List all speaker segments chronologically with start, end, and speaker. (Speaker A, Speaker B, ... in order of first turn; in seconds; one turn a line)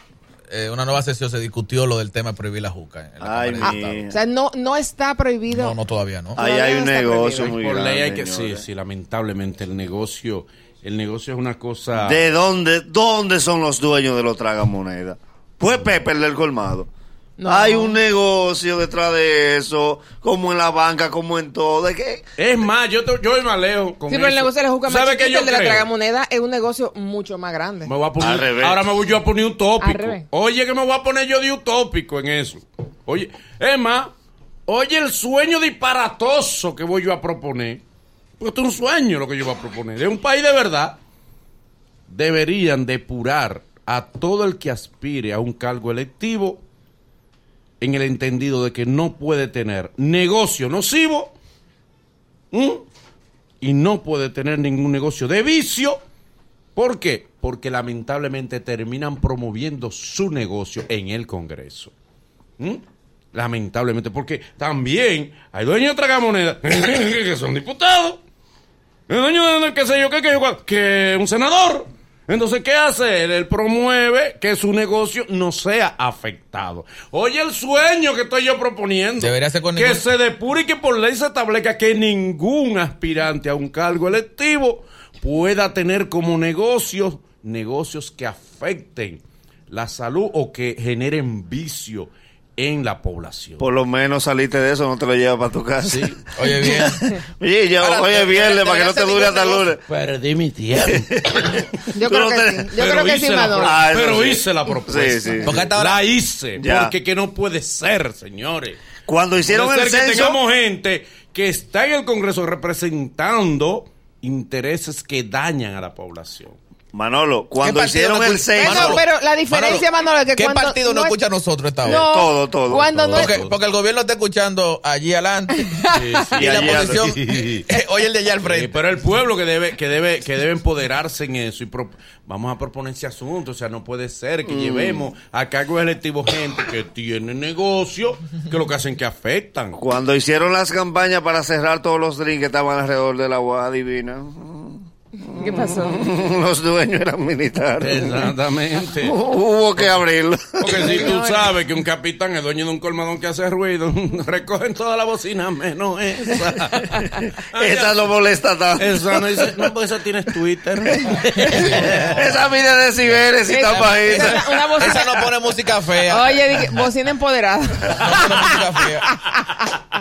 Speaker A: 0.5-4.2
Speaker B: 3.2-4.2
Speaker C: 3.6-5.8
Speaker A: 5.5-6.4
Speaker C: 6.3-7.6
Speaker B: 6.3-8.6
Speaker D: 7.4-12.2
Speaker B: 11.9-16.9
Speaker C: 17.4-18.0
Speaker B: 17.4-22.2
Speaker D: 22.4-25.9
Speaker C: 24.1-27.9
Speaker D: 27.8-34.1
Speaker B: 28.2-28.8
Speaker C: 29.8-30.2
Speaker D: 34.7-37.8
Speaker D: 38.4-41.0
Speaker D: 42.1-46.6
Speaker D: 47.8-51.3
Speaker D: 52.5-52.8
Speaker D: 53.6-56.0
Speaker D: 56.7-61.9
Speaker D: 62.6-68.2
Speaker D: 69.1-93.6
Speaker A: 79.2-80.0
Speaker B: 93.6-99.8
Speaker D: 95.8-96.4
Speaker A: 96.3-97.1
Speaker A: 97.8-99.7
Speaker D: 99.8-101.9
Speaker B: 100.9-101.5
Speaker C: 101.9-103.8
Speaker B: 102.0-102.8
Speaker D: 102.8-108.9
Speaker B: 103.6-105.6
Speaker A: 105.4-106.0
Speaker B: 106.5-106.9
Speaker B: 109.1-110.4
Speaker D: 109.4-116.6
Speaker B: 116.9-119.0
Speaker A: 117.6-122.0
Speaker C: 118.6-121.2
Speaker C: 121.8-123.3
Speaker B: 121.8-122.9
Speaker D: 122.7-123.5
Speaker A: 123.1-125.7
Speaker C: 125.5-126.3
Speaker D: 125.9-127.7
Speaker A: 126.3-128.7
Speaker B: 126.3-127.0
Speaker D: 128.4-139.8
Speaker B: 134.4-135.1
Speaker B: 139.8-144.8
Speaker C: 145.2-146.1
Speaker B: 145.5-148.3
Speaker D: 147.8-149.2
Speaker B: 149.0-151.1
Speaker D: 149.7-150.1
Speaker D: 150.6-158.0
Speaker C: 150.7-151.5
Speaker B: 157.4-159.6
Speaker D: 158.8-162.4
Speaker B: 161.9-164.4
Speaker C: 163.4-165.3
Speaker A: 164.8-166.4
Speaker C: 166.0-169.3
Speaker A: 167.9-169.1